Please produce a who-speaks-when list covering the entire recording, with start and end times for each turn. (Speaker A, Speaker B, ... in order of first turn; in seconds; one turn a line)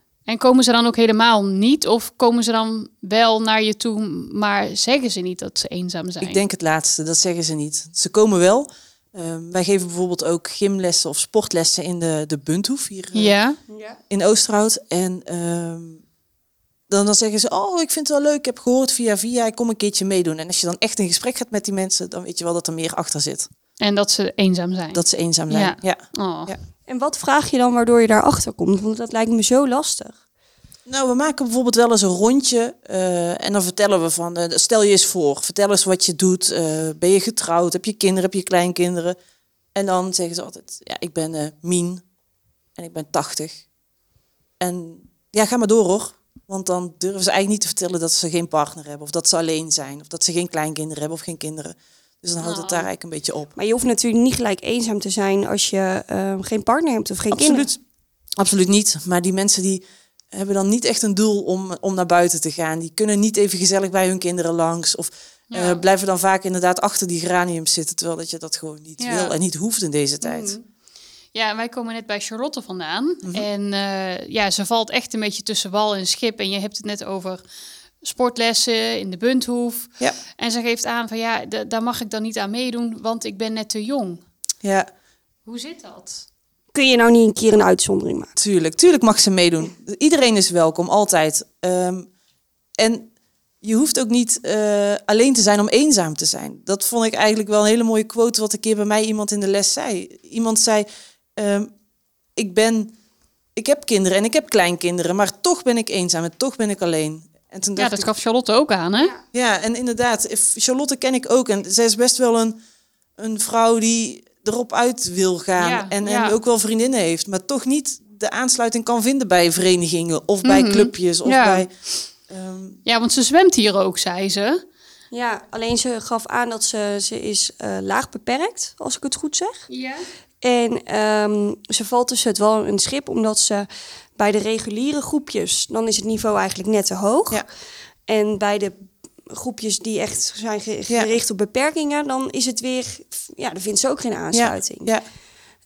Speaker A: 0.3-6.4
Speaker B: 6.2-13.3
Speaker A: 13.1-13.6
Speaker C: 13.7-14.0
Speaker B: 14.1-16.0
Speaker B: 16.9-23.5
Speaker A: 23.8-26.5
Speaker B: 24.9-26.6
Speaker C: 26.9-30.1
Speaker B: 30.9-39.2
Speaker B: 39.7-42.0
Speaker B: 42.8-43.6
Speaker B: 44.6-53.5
Speaker A: 52.4-52.9
Speaker C: 53.5-57.7
Speaker B: 57.3-57.8
Speaker B: 58.4-70.5
Speaker A: 65.5-65.8
Speaker A: 69.0-69.3
Speaker A: 70.2-70.6
Speaker A: 71.3-77.4
Speaker A: 78.0-84.2
Speaker B: 84.6-84.9
Speaker A: 85.5-86.2
Speaker C: 86.7-88.3
Speaker B: 88.4-92.1
Speaker B: 92.8-93.1
Speaker B: 93.6-101.7
Speaker B: 102.3-102.9
Speaker B: 103.5-108.1
Speaker A: 107.8-109.1
Speaker B: 109.3-112.6
Speaker B: 113.2-121.7
Speaker A: 115.6-116.3
Speaker A: 120.4-121.7
Speaker B: 122.3-122.8
Speaker A: 122.8-124.6
Speaker C: 125.1-129.7
Speaker A: 129.7-130.0
Speaker C: 130.4-137.4
Speaker C: 138.1-144.9
Speaker B: 144.3-145.0